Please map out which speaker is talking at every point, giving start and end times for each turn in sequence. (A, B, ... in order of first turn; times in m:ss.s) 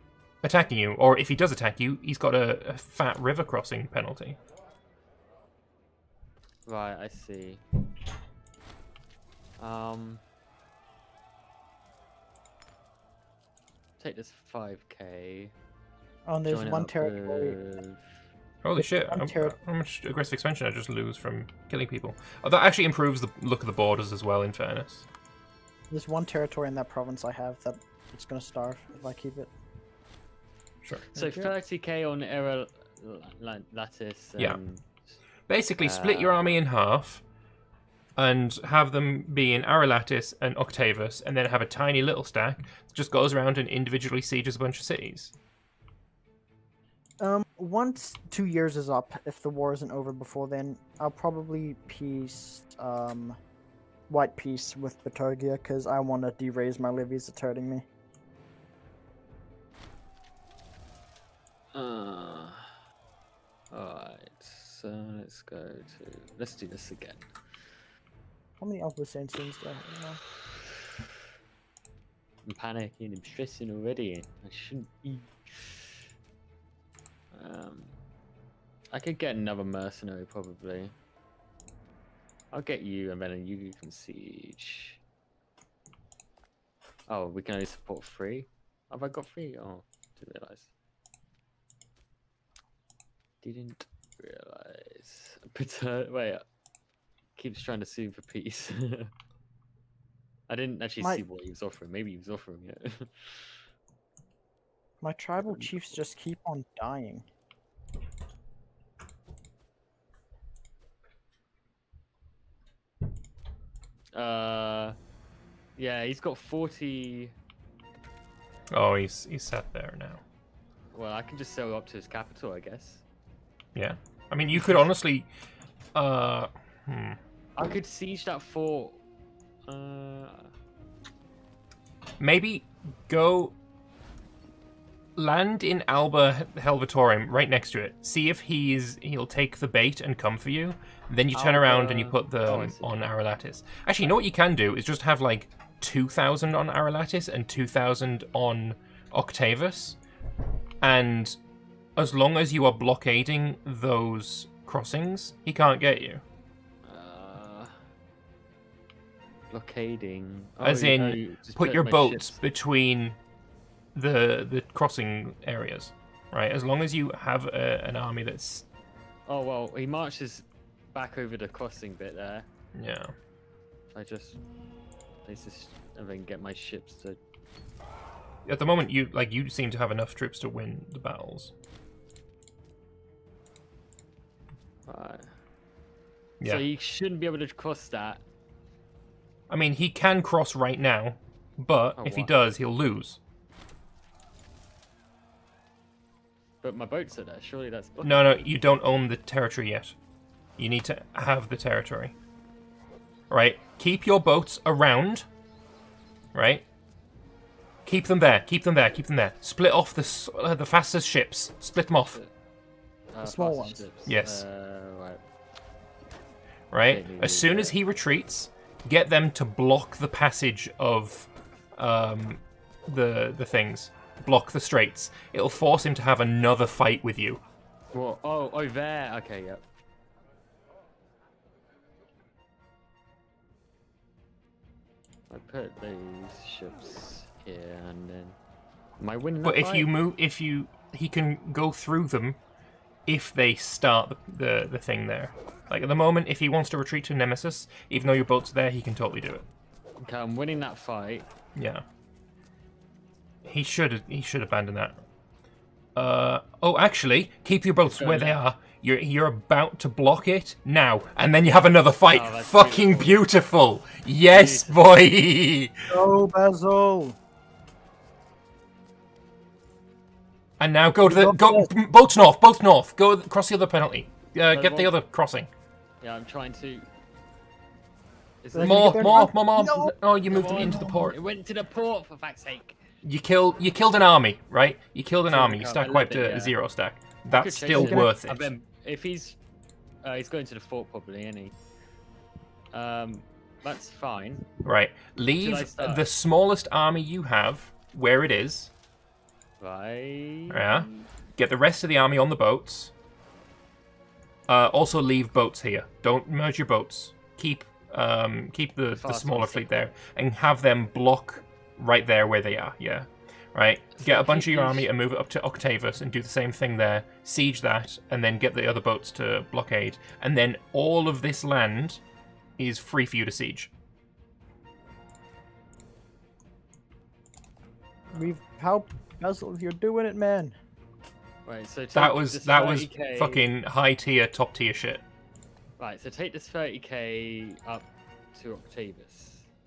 0:00.4-0:04.4 A
0:06.6-0:07.6 B
0:09.6-0:10.2 B
0:14.0-0:15.5 B
0:16.2-0:17.6 C
0:16.5-0:18.0 B
0:18.6-0:25.1 A
0:18.8-0:19.5 C
0:25.9-0:29.5 C
0:30.8-0:31.1 A
0:31.1-0:35.1 B
0:31.2-0:31.5 C
0:35.5-0:37.2 A
0:35.8-0:36.6 B
0:38.2-0:45.3 A
0:47.2-0:53.4 C
0:54.1-0:57.8 C
1:01.7-1:02.7 B
1:03.7-1:07.6 B
1:08.6-1:10.2 C
1:10.4-1:10.7 B
1:12.4-1:16.0 B
1:17.3-1:18.0 B
1:18.9-1:20.9 B
1:22.5-1:25.0 B
1:27.1-1:30.7 B
1:33.4-1:36.4 B
1:37.4-1:39.1 B
1:40.5-1:43.6 B
1:45.0-1:47.2 C
1:45.4-1:46.0 B
1:54.1-1:55.0 B
1:55.8-1:57.3 B
1:58.7-2:00.2 A
2:00.9-2:03.0 B
2:03.7-2:05.3 A
2:05.9-2:07.2 A
2:07.6-2:09.0 B
2:09.7-2:10.5 B
2:12.2-2:13.5 A
2:15.2-2:30.0 A
2:21.3-2:23.0 B
2:30.8-2:31.4 A
2:32.0-2:36.2 A
2:36.8-2:37.8 B
2:39.5-2:42.4 B
2:40.6-2:43.2 A
2:43.9-2:48.6 A
2:49.3-2:52.5 B
2:52.7-2:53.1 A
2:53.9-2:54.4 B
2:55.2-2:57.2 B
2:58.4-3:01.5 A
3:04.9-3:05.3 B
3:06.4-3:08.2 B
3:09.5-3:13.2 A
3:12.0-3:12.3 B
3:16.6-3:18.4 B
3:18.0-3:20.0 A
3:20.6-3:22.1 A
3:23.3-3:25.2 A
3:26.3-3:26.6 A
3:27.8-3:32.2 A
3:31.9-3:32.3 B
3:33.1-3:35.2 B
3:33.2-3:33.8 C
3:34.1-3:34.4 A
3:36.7-3:47.4 A
3:36.9-3:37.8 B
3:47.9-3:49.6 B
3:55.3-3:58.4 B
3:59.0-3:59.9 B
3:59.4-4:02.4 A
4:03.0-4:09.4 A
4:10.0-4:11.3 B
4:11.5-4:11.8 A
4:13.4-4:15.0 A
4:15.9-4:25.9 A
4:17.9-4:18.4 B
4:22.1-4:23.2 B
4:24.3-4:24.8 B
4:25.9-4:27.2 C
4:30.6-4:35.5 A
4:31.0-4:31.7 C
4:34.5-4:34.9 B
4:36.0-4:36.9 B
4:38.4-4:39.3 B
4:38.5-4:39.9 C
4:38.6-4:41.2 A
4:40.3-4:42.8 B
4:40.6-4:40.9 C
4:43.0-4:48.5 A
4:45.3-4:46.6 B
4:47.3-4:49.4 B
4:47.7-4:48.1 C
4:50.0-4:51.6 B
4:52.7-4:54.4 B
4:54.6-4:58.7 A
4:55.4-4:56.0 B
4:59.6-5:01.1 B
5:00.5-5:02.9 A
5:04.5-5:22.0 A
5:09.0-5:09.9 B
5:14.0-5:14.9 B
5:22.6-5:23.7 A
5:28.1-5:30.6 C
5:31.4-5:33.4 B
5:31.9-5:35.0 A
5:35.8-5:39.5 B